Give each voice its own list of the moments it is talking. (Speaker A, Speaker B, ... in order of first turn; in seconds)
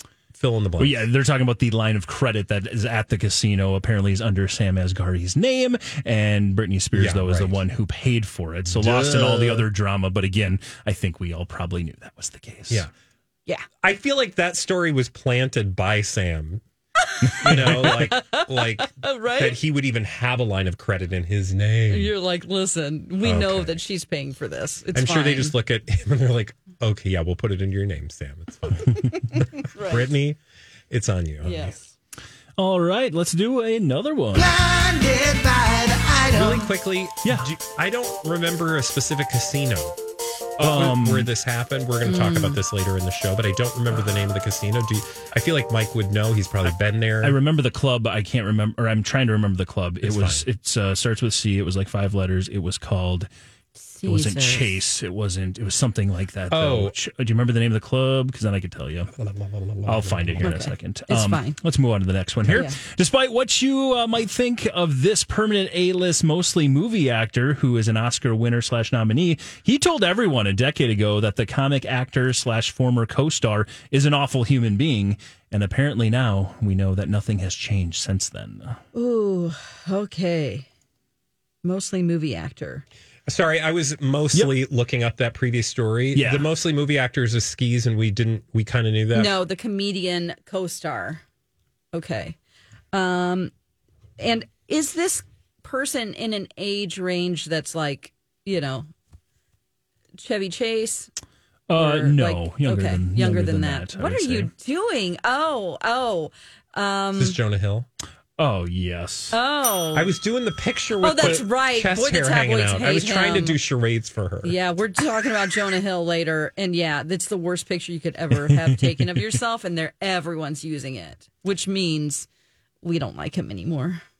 Speaker A: 0.3-1.1, 6.9-7.6, 8.7-9.7, 13.8-16.6, 17.4-22.1, 23.2-23.8, 24.9-30.4, 30.9-31.8, 36.3-40.0, 40.6-47.4, 50.0-50.5, 56.5-57.0, 59.1-60.6, 62.5-62.7, 83.3-89.4, 107.2-107.9, 109.9-114.6
Speaker B: 0.8-12.9, 17.3-17.9, 32.6-34.5, 37.2-37.5, 40.6-41.3, 47.2-53.3, 54.0-59.1, 59.9-78.8, 86.1-86.5, 101.7-104.5, 108.4-109.4
Speaker C: 17.2-19.6, 21.9-25.5, 29.6-30.1, 31.4-31.9, 42.0-42.6, 53.8-54.7, 60.4-61.6, 62.5-62.8, 78.9-80.7, 81.6-82.8, 89.1-91.2, 91.9-92.4, 92.9-93.5, 94.2-98.9, 100.2-101.1, 101.8-107.4, 109.3-110.1, 111.0-113.6, 114.4-122.3, 122.8-124.0
Speaker D: 34.4-36.6